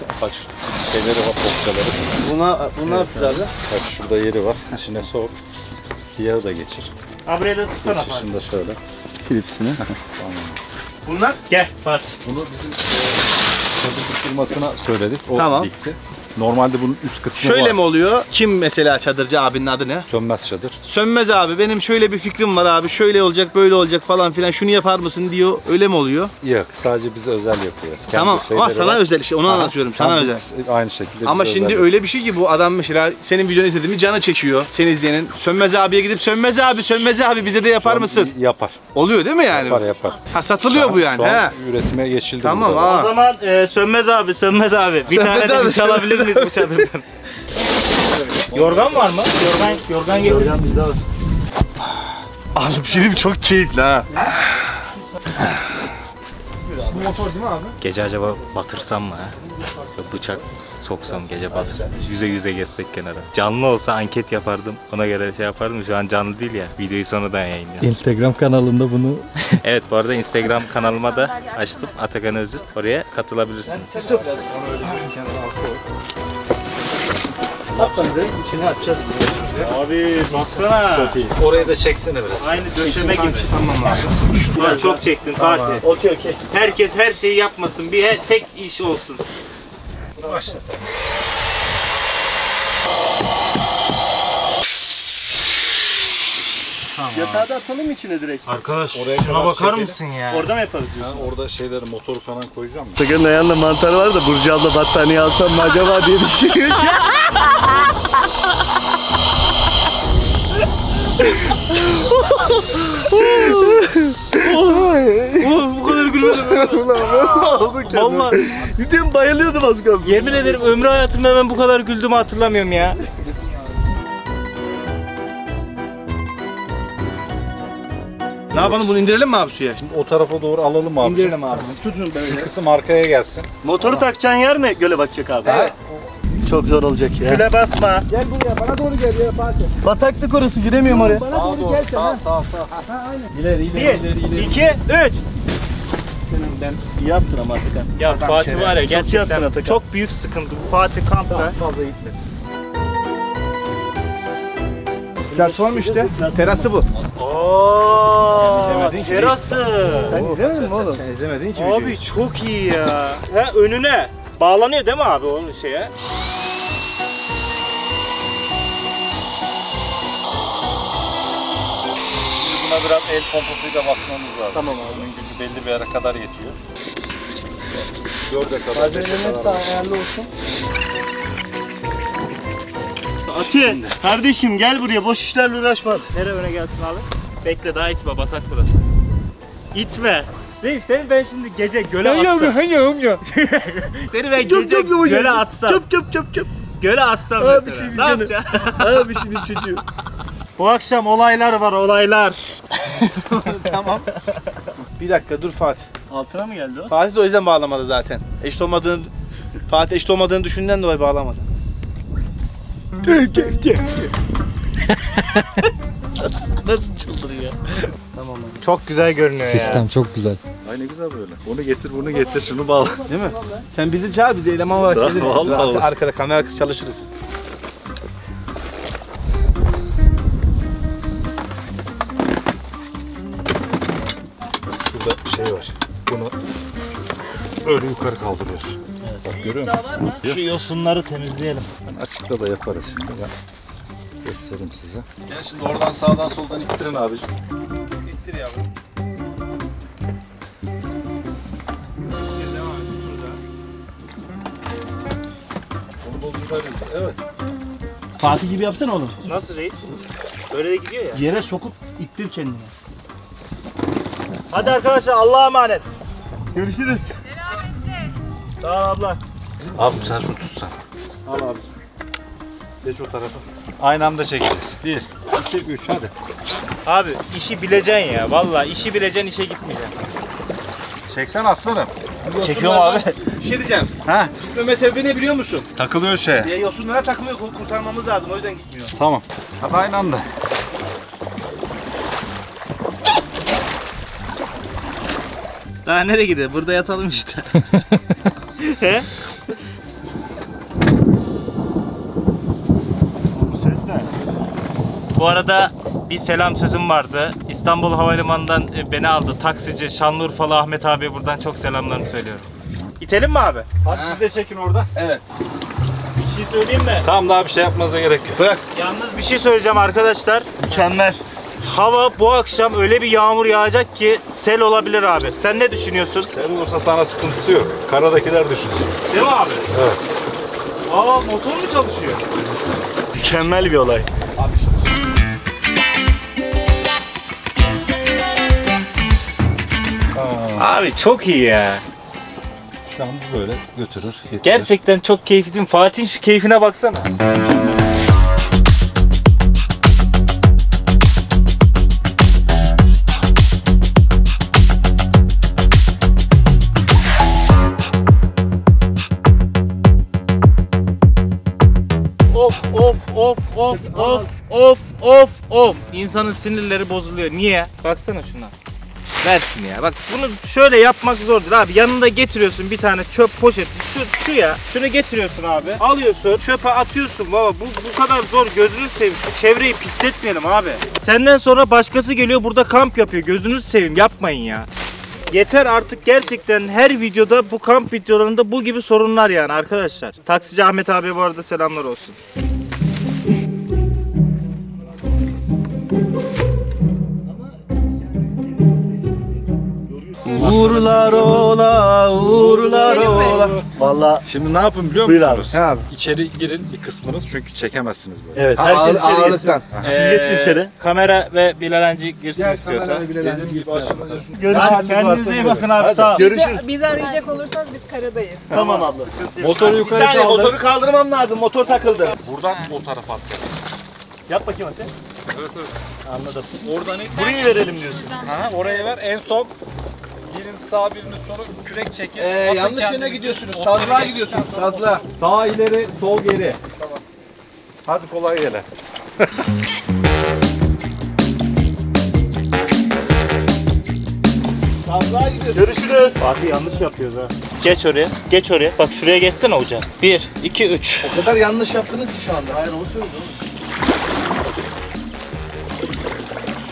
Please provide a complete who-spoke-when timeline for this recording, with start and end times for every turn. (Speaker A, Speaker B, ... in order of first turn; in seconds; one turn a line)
Speaker A: 0.2-2.2
Speaker B: 2.2-3.5
Speaker C: 3.0-3.3
Speaker A: 3.6-5.4
Speaker A: 6.0-6.9
Speaker D: 7.3-8.3
Speaker A: 7.8-8.8
Speaker C: 9.3-9.8
Speaker A: 9.8-10.6
Speaker B: 11.1-11.4
Speaker D: 11.5-12.1
Speaker A: 12.2-13.1
Speaker A: 13.8-17.8
Speaker B: 15.3-15.7
Speaker B: 17.4-20.1
Speaker A: 20.1-20.8
Speaker B: 20.8-26.3
Speaker A: 26.4-31.9
Speaker B: 28.1-30.4
Speaker B: 31.2-38.3
Speaker A: 37.8-38.8
Speaker B: 38.9-41.5
Speaker A: 39.5-43.1
Speaker B: 42.4-43.1
Speaker D: 42.8-47.0
Speaker B: 45.1-46.9
Speaker A: 48.1-49.3
Speaker D: 48.5-50.5
Speaker C: 49.6-51.0
Speaker B: 52.5-54.1
Speaker B: 56.6-57.8
Speaker D: 57.8-59.4
Speaker D: 60.0-68.0
Speaker B: 61.5-62.1
Speaker E: 67.8-69.2
Speaker D: 69.5-74.2
Speaker F: 70.6-72.2
Speaker B: 73.7-75.8
Speaker A: 74.0-75.5
Speaker C: 77.8-79.7
Speaker A: 77.8-78.3
Speaker A: 79.3-79.7
Speaker D: 79.6-81.2
Speaker C: 80.3-81.4
Speaker A: 81.3-82.5
Speaker D: 82.4-83.5
Speaker B: 82.8-84.9
Speaker C: 83.0-83.3
Speaker D: 84.5-85.8
Speaker C: 84.5-85.0
Speaker A: 85.4-85.8
Speaker C: 85.8-86.4
Speaker D: 86.5-89.2
Speaker A: 90.2-90.8
Speaker C: 90.2-90.6
Speaker A: 96.9-97.5
Speaker C: 97.1-98.5
Speaker D: 98.5-100.5
Speaker A: 98.9-100.0
Speaker C: 100.3-101.3
Speaker A: 101.0-103.0
Speaker C: 103.0-107.2
Speaker C: 111.2-115.5
Speaker D: 115.4-118.6
Speaker C: 116.2-120.9
Speaker D: 120.0-123.0
Speaker B: 128.5-129.8
Speaker A: 129.8-134.1
Speaker B: 131.0-132.5
Speaker C: 133.6-135.7
Speaker B: 135.4-136.4
Speaker C: 136.4-137.5
Speaker D: 137.2-138.1
Speaker B: 138.1-139.8
Speaker C: 139.8-141.3
Speaker B: 140.8-144.7
Speaker A: 141.3-142.7
Speaker D: 143.7-145.2
Speaker B: 146.3-146.8
Speaker C: 146.8-148.0
Speaker D: 148.0-151.6
Speaker B: 148.0-148.9
Speaker C: 148.8-149.8
Speaker A: 151.4-152.3
Speaker C: 155.3-156.7
Speaker B: 155.3-156.9
Speaker D: 157.2-160.4
Speaker B: 158.3-162.0
Speaker C: 158.5-158.8
Speaker C: 160.1-161.0
Speaker D: 161.6-165.9
Speaker A: 172.3-176.6
Speaker C: 174.5-175.1
Speaker A: 178.3-179.7
Speaker C: 178.7-180.3
Speaker C: 183.4-186.1
Speaker A: 183.4-184.0
Speaker D: 186.1-188.8
Speaker D: 189.7-192.6
Speaker B: 192.0-193.2
Speaker D: 193.3-195.8
Speaker C: 194.4-196.5
Speaker D: 196.8-199.0
Speaker C: 197.4-199.8
Speaker D: 200.6-202.4
Speaker B: 203.0-204.1
Speaker B: 205.0-205.8
Speaker C: 206.1-207.0
Speaker B: 206.9-209.1
Speaker B: 209.7-211.4
Speaker C: 213.1-214.0
Speaker C: 216.6-217.5
Speaker B: 218.2-218.6
Speaker D: 218.6-219.9
Speaker E: 219.5-220.4
Speaker A: 220.6-223.0
Speaker C: 222.4-223.6
Speaker B: 223.1-227.1
Speaker A: 224.8-225.9
Speaker A: 234.8-236.3
Speaker A: 237.6-240.4
Speaker C: 239.0-240.2
Speaker D: 240.2-241.7
Speaker A: 241.9-243.3
Speaker A: 244.2-247.3
Speaker B: 248.0-248.7
Speaker B: 252.3-253.4
Speaker A: 256.0-257.2
Speaker B: 258.2-259.1
Speaker D: 259.2-259.8
Speaker D: 260.5-261.2
Speaker B: 261.1-262.7
Speaker D: 264.5-265.9
Speaker C: 266.5-267.1
Speaker D: 268.6-269.2
Speaker A: 269.7-271.7
Speaker A: 272.8-276.1
Speaker D: 276.9-279.9
Speaker A: 281.1-281.9
Speaker B: 282.2-285.7
Speaker D: 282.4-283.2
Speaker A: 284.1-284.3
Speaker A: 285.8-286.5
Speaker B: 286.4-288.9
Speaker A: 288.9-290.2
Speaker D: 295.9-297.4
Speaker D: 298.6-299.1
Speaker C: 303.3-304.1
Speaker D: 305.1-312.5
Speaker D: 313.0-313.8
Speaker A: 313.9-314.9
Speaker B: 313.9-314.2
Speaker B: 314.9-315.2
Speaker D: 316.2-317.1
Speaker A: 317.0-318.4
Speaker B: 318.4-318.6
Speaker D: 318.7-320.6
Speaker C: 320.7-321.2
Speaker D: 321.6-326.3
Speaker A: 326.3-329.0
Speaker D: 329.1-329.7
Speaker A: 329.7-330.0
Speaker D: 330.9-332.3
Speaker C: 333.2-334.1
Speaker B: 334.4-334.9
Speaker A: 340.1-340.7
Speaker D: 340.6-341.8
Speaker A: 342.9-344.7
Speaker D: 344.4-347.1
Speaker D: 362.3-368.5
Speaker C: 363.8-364.3
Speaker D: 369.2-384.7
Speaker D: 385.3-392.2
Speaker C: 400.3-400.9
Speaker B: 400.3-403.6
Speaker A: 400.4-401.5
Speaker D: 400.4-401.4
Speaker A: 402.8-403.6
Speaker F: 402.8-403.5
Speaker C: 402.9-404.2
Speaker A: 404.2-408.6
Speaker C: 405.0-405.5
Speaker B: 405.5-405.9
Speaker C: 408.4-410.7
Speaker B: 408.6-409.7
Speaker D: 409.8-413.1
Speaker B: 412.4-414.2
Speaker A: 413.2-416.2
Speaker C: 414.4-414.9
Speaker D: 414.5-416.3
Speaker C: 416.1-416.7
Speaker F: 416.1-418.8
Speaker C: 418.5-419.1
Speaker D: 418.5-419.9
Speaker A: 419.4-420.6
Speaker B: 419.6-422.2
Speaker A: 422.1-423.5
Speaker C: 424.3-424.9
Speaker A: 425.3-425.7
Speaker C: 426.1-428.2
Speaker A: 426.6-427.6
Speaker F: 427.1-428.9
Speaker A: 428.2-429.5
Speaker A: 430.3-436.6
Speaker B: 432.2-435.0
Speaker A: 437.9-438.7
Speaker B: 444.9-446.0
Speaker C: 445.5-446.2
Speaker D: 446.2-451.2
Speaker B: 451.0-452.6
Speaker C: 452.5-453.3